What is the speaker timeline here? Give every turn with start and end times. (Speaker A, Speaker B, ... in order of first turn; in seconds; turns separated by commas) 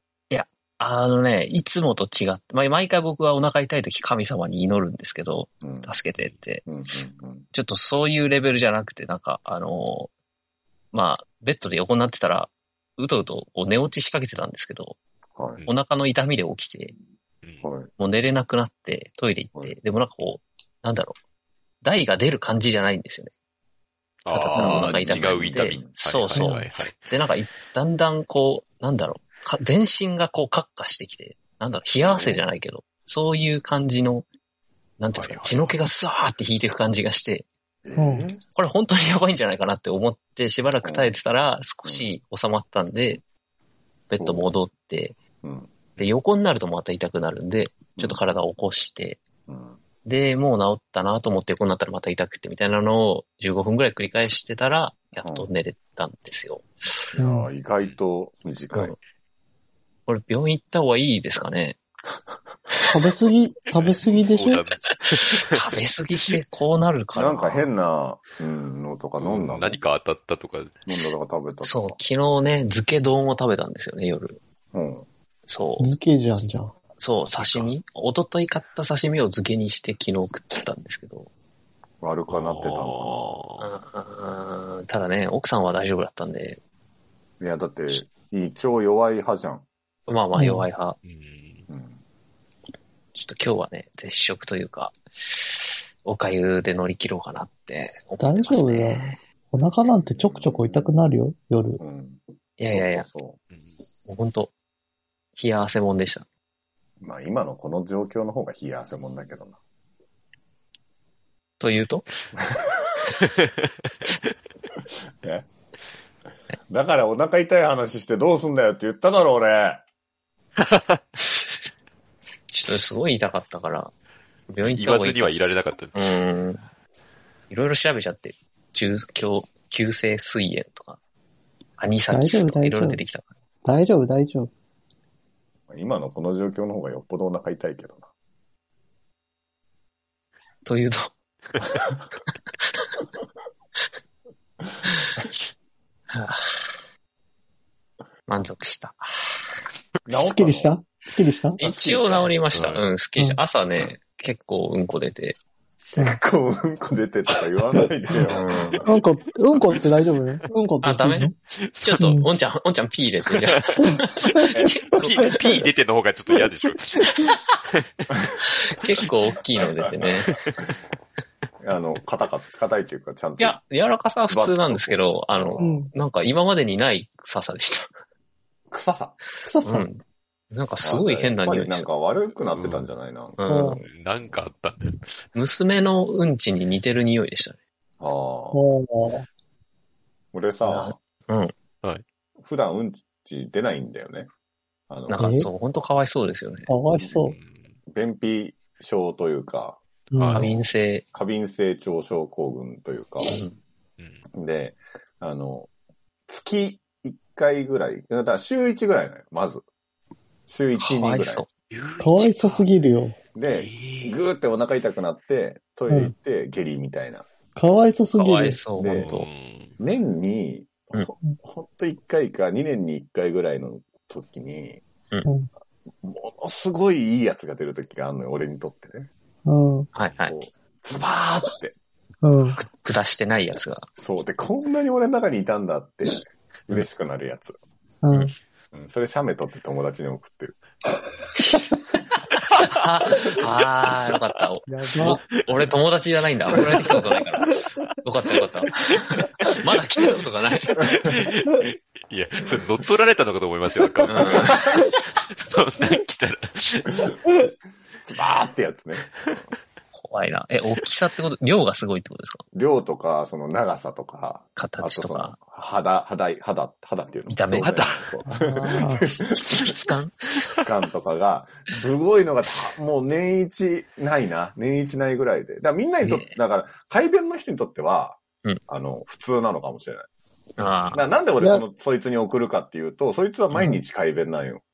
Speaker A: 0.3-6.7, Speaker B: 5.6-5.9, Speaker B: 6.6-7.5, Speaker A: 7.5-10.1, Speaker A: 10.9-15.0, Speaker B: 15.3-15.6, Speaker A: 15.7-16.9, Speaker B: 17.6-17.9, Speaker A: 18.0-21.1, Speaker A: 21.8-23.3, Speaker C: 24.2-27.1, Speaker A: 24.3-34.2, Speaker B: 24.5-25.9, Speaker B: 32.0-32.4, Speaker A: 35.0-37.5, Speaker C: 35.1-35.8, Speaker B: 37.8-38.4, Speaker D: 38.0-38.3, Speaker A: 38.5-43.2, Speaker B: 40.8-41.1, Speaker B: 41.8-42.1, Speaker A: 44.1-45.1, Speaker B: 44.2-44.6, Speaker B: 45.4-45.8, Speaker A: 46.0-49.2, Speaker B: 49.5-49.8, Speaker A: 50.0-56.9, Speaker B: 55.2-55.5, Speaker B: 57.1-59.0, Speaker D: 57.2-57.5, Speaker A: 60.1-61.8, Speaker D: 62.9-64.7, Speaker C: 63.8-65.6, Speaker A: 64.9-67.7, Speaker B: 67.1-69.8, Speaker C: 69.2-70.8, Speaker B: 70.9-72.0, Speaker A: 71.6-74.4, Speaker B: 74.7-75.1, Speaker A: 75.5-75.9, Speaker D: 75.8-76.7, Speaker A: 77.0-81.3, Speaker C: 77.3-77.7, Speaker B: 82.0-83.4, Speaker C: 82.3-83.7, Speaker A: 83.6-86.6, Speaker B: 87.4-89.6, Speaker A: 90.1-91.0, Speaker D: 90.3-90.7, Speaker C: 91.0-91.7, Speaker B: 91.7-92.0, Speaker A: 93.1-99.2, Speaker D: 98.2-101.8, Speaker B: 100.0-101.0, Speaker B: 101.8-103.4, Speaker A: 102.6-103.1, Speaker A: 104.0-104.5, Speaker A: 105.3-106.2, Speaker B: 107.0-109.6, Speaker A: 111.6-112.0, Speaker B: 115.2-115.5, Speaker B: 116.7-119.8, Speaker C: 120.6-121.0, Speaker A: 122.5-123.9, Speaker A: 124.5-126.6, Speaker C: 124.6-126.1, Speaker A: 127.5-131.0, Speaker A: 131.8-133.3, Speaker D: 132.1-133.0, Speaker D: 133.6-134.5, Speaker B: 135.7-138.1, Speaker A: 140.6-141.1, Speaker A: 146.1-146.7, Speaker A: 148.3-149.4, Speaker B: 150.1-150.8, Speaker D: 150.2-151.6, Speaker A: 151.6-155.4, Speaker B: 151.6-152.3, Speaker C: 152.5-152.8, Speaker B: 155.8-158.9, Speaker A: 158.3-158.8, Speaker D: 158.8-161.3, Speaker A: 160.8-165.4, Speaker C: 161.7-162.0, Speaker D: 162.0-162.3, Speaker C: 163.6-168.1, Speaker D: 163.8-164.4, Speaker A: 168.4-170.4, Speaker B: 169.6-170.3, Speaker B: 171.6-173.6, Speaker A: 173.4-177.9, Speaker B: 174.3-175.8, Speaker D: 175.6-175.9, Speaker B: 178.7-179.2, Speaker D: 179.4-179.9, Speaker A: 179.6-181.9, Speaker B: 180.8-183.9, Speaker C: 182.5-182.9, Speaker A: 183.4-183.8, Speaker D: 183.5-183.8, Speaker C: 183.9-185.0, Speaker A: 185.3-187.6, Speaker B: 188.0-188.6, Speaker D: 188.5-189.3, Speaker B: 190.3-191.0, Speaker A: 190.6-191.5, Speaker B: 192.4-194.3, Speaker B: 194.9-195.3, Speaker A: 195.1-196.7, Speaker D: 195.2-195.5, Speaker D: 196.7-197.4, Speaker C: 197.2-197.7, Speaker B: 197.9-199.8, Speaker D: 200.1-200.4, Speaker C: 200.2-200.4, Speaker A: 200.3-201.0, Speaker B: 200.4-203.4, Speaker B: 204.3-205.7, Speaker B: 206.3-209.6, Speaker B: 210.5-211.4, Speaker A: 210.8-211.5, Speaker C: 211.7-212.7, Speaker D: 212.0-213.2, Speaker B: 213.3-217.2, Speaker C: 213.5-214.2, Speaker D: 217.6-218.6, Speaker A: 218.1-219.3, Speaker B: 218.8-219.1, Speaker C: 218.9-219.8, Speaker B: 219.8-224.8, Speaker B: 226.0-229.1, Speaker D: 229.4-229.9, Speaker A: 229.9-230.3, Speaker B: 230.2-231.7, Speaker D: 232.2-232.6, Speaker A: 232.6-233.9, Speaker B: 234.0-237.6, Speaker D: 238.0-238.3, Speaker B: 238.7-240.6, Speaker A: 241.4-241.7, Speaker A: 242.6-250.8, Speaker D: 244.7-245.2, Speaker C: 251.0-257.1, Speaker A: 254.1-254.6, Speaker B: 254.2-254.8, Speaker B: 258.0-259.1, Speaker A: 259.9-262.4, Speaker B: 262.5-269.7, Speaker A: 264.6-265.4, Speaker A: 267.3-267.8, Speaker C: 267.6-268.0, Speaker D: 268.2-269.1, Speaker A: 269.3-270.3, Speaker B: 270.5-280.1, Speaker A: 276.0-276.4, Speaker A: 280.6-281.0, Speaker C: 280.7-281.0, Speaker B: 280.9-284.6